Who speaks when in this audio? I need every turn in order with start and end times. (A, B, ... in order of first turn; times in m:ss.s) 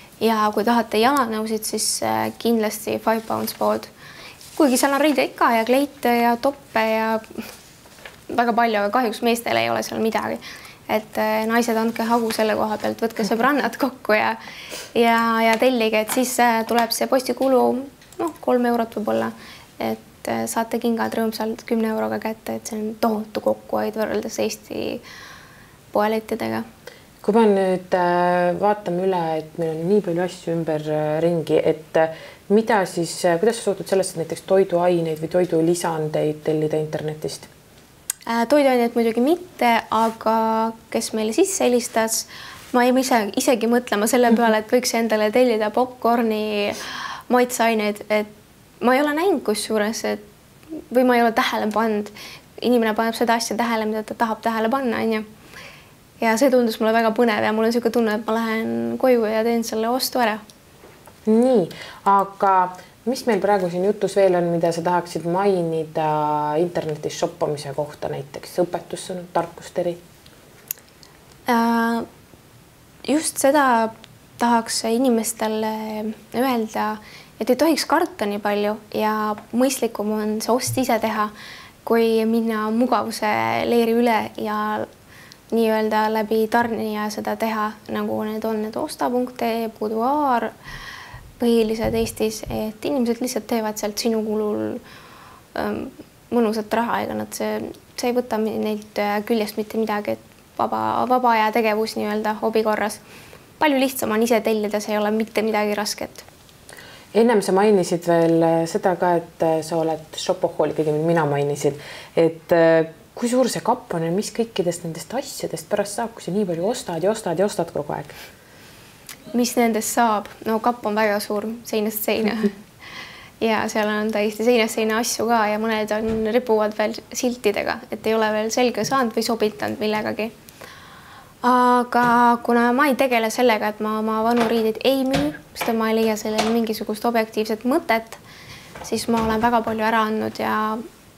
0:00.2-0:03.9 A
0:04.6-0:07.5 A
0:08.3-0:14.4 A
0:14.9-0:25.0 A
0:25.9-0:26.7 A
0:27.2-0:37.5 B
0:38.3-0:48.3 A
0:48.8-0:50.2 A
0:50.9-0:55.3 A
0:56.2-1:00.4 A
1:01.3-1:10.0 B
1:11.5-1:12.1 A
1:13.1-1:21.3 A
1:21.8-1:24.9 A
1:25.5-1:30.5 A
1:31.4-1:34.8 A
1:35.6-1:43.0 A
1:43.6-1:46.3 A
1:47.1-1:58.2 B
1:59.3-2:02.5 A
2:03.4-2:10.3 A
2:11.4-2:18.2 A
2:18.8-2:20.8 A